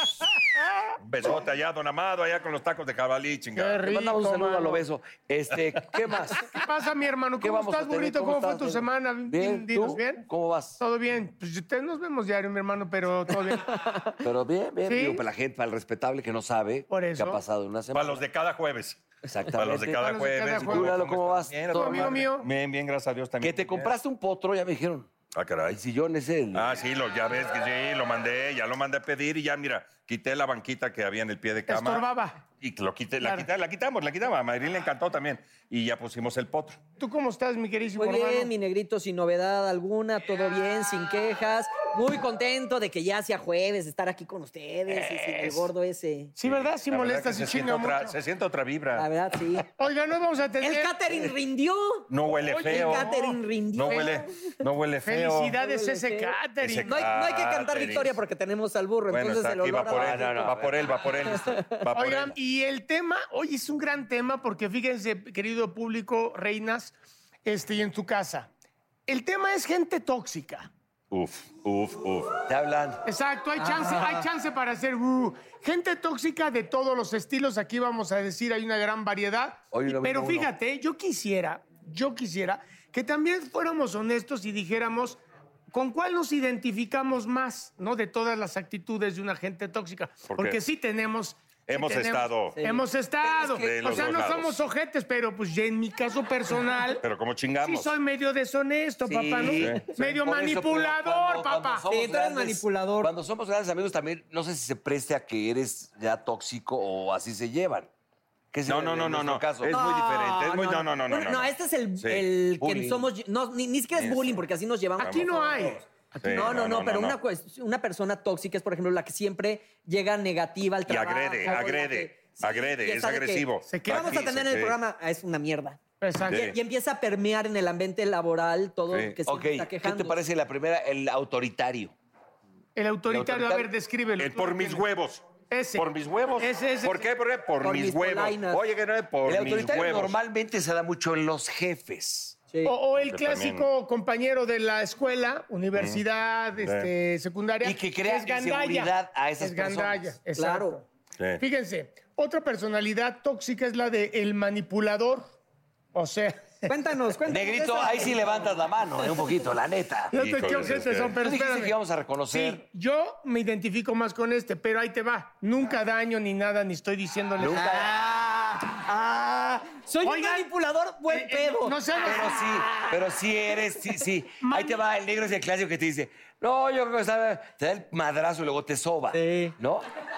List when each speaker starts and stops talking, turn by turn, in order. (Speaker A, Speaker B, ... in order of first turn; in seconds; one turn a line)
Speaker A: 1.0-3.8
Speaker B: 3.5-4.8
Speaker C: 3.8-6.4
Speaker B: 6.6-10.2
Speaker C: 7.4-10.8
Speaker B: 10.8-13.9
Speaker C: 14.2-18.2
Speaker B: 14.8-15.2
Speaker B: 16.9-17.4
Speaker A: 17.9-19.0
Speaker C: 19.3-20.0
Speaker A: 19.5-23.9
Speaker B: 20.0-21.0
Speaker C: 20.6-22.1
Speaker B: 21.7-22.5
Speaker C: 23.4-25.1
Speaker A: 25.3-25.8
Speaker C: 25.7-26.8
Speaker A: 26.5-32.0
Speaker B: 31.7-32.4
Speaker A: 32.6-36.8
Speaker B: 37.0-38.5
Speaker D: 38.0-46.3
Speaker B: 44.9-45.7
Speaker B: 46.4-48.1
Speaker A: 46.4-49.1
Speaker D: 49.0-49.7
Speaker B: 49.8-51.0
Speaker D: 50.6-52.1
Speaker A: 52.1-53.1
Speaker B: 52.5-54.1
Speaker D: 52.6-54.2
Speaker A: 53.7-55.6
Speaker B: 55.0-57.1
Speaker D: 55.6-60.5
Speaker A: 56.6-58.2
Speaker A: 59.1-62.3
Speaker C: 59.9-61.1
Speaker B: 62.0-66.9
Speaker B: 67.4-68.5
Speaker B: 69.1-70.7
Speaker A: 71.1-72.3
Speaker C: 72.5-73.0
Speaker B: 73.0-85.2
Speaker D: 73.6-74.2
Speaker C: 79.7-80.5
Speaker B: 85.7-97.0
Speaker A: 90.3-90.6
Speaker A: 91.7-92.6
Speaker D: 92.5-92.8
Speaker C: 93.2-94.1
Speaker A: 93.6-94.6
Speaker A: 97.0-97.9
Speaker B: 97.6-101.8
Speaker C: 99.0-107.9
Speaker A: 99.4-99.9
Speaker D: 101.9-103.1
Speaker C: 108.5-109.8
Speaker A: 108.7-112.2
Speaker D: 109.7-130.2
Speaker C: 112.6-113.1
Speaker A: 114.0-114.4
Speaker B: 115.0-115.8
Speaker A: 115.0-115.3
Speaker A: 116.2-117.2
Speaker A: 120.9-124.8
Speaker B: 123.7-124.1
Speaker B: 126.0-126.5
Speaker A: 126.3-126.5
Speaker A: 128.9-129.2
Speaker C: 129.3-131.9
Speaker B: 132.8-134.8
Speaker C: 133.1-133.7
Speaker A: 134.2-140.2
Speaker B: 135.5-135.8
Speaker B: 136.4-137.1
Speaker D: 137.6-138.6
Speaker C: 139.2-142.3
Speaker B: 142.6-150.8
Speaker A: 142.9-143.7
Speaker A: 145.7-146.0
Speaker A: 146.6-146.9
Speaker C: 147.6-150.1
Speaker D: 150.3-150.8
Speaker B: 151.4-155.3
Speaker B: 155.9-156.7
Speaker D: 156.7-158.5
Speaker C: 157.2-160.1
Speaker B: 160.1-161.7
Speaker A: 160.1-161.2
Speaker C: 161.2-162.6
Speaker B: 162.3-167.9
Speaker C: 167.4-167.8
Speaker D: 167.5-173.0
Speaker B: 170.0-170.5
Speaker B: 171.1-172.3
Speaker C: 172.0-179.8
Speaker B: 174.4-174.8
Speaker D: 179.1-179.5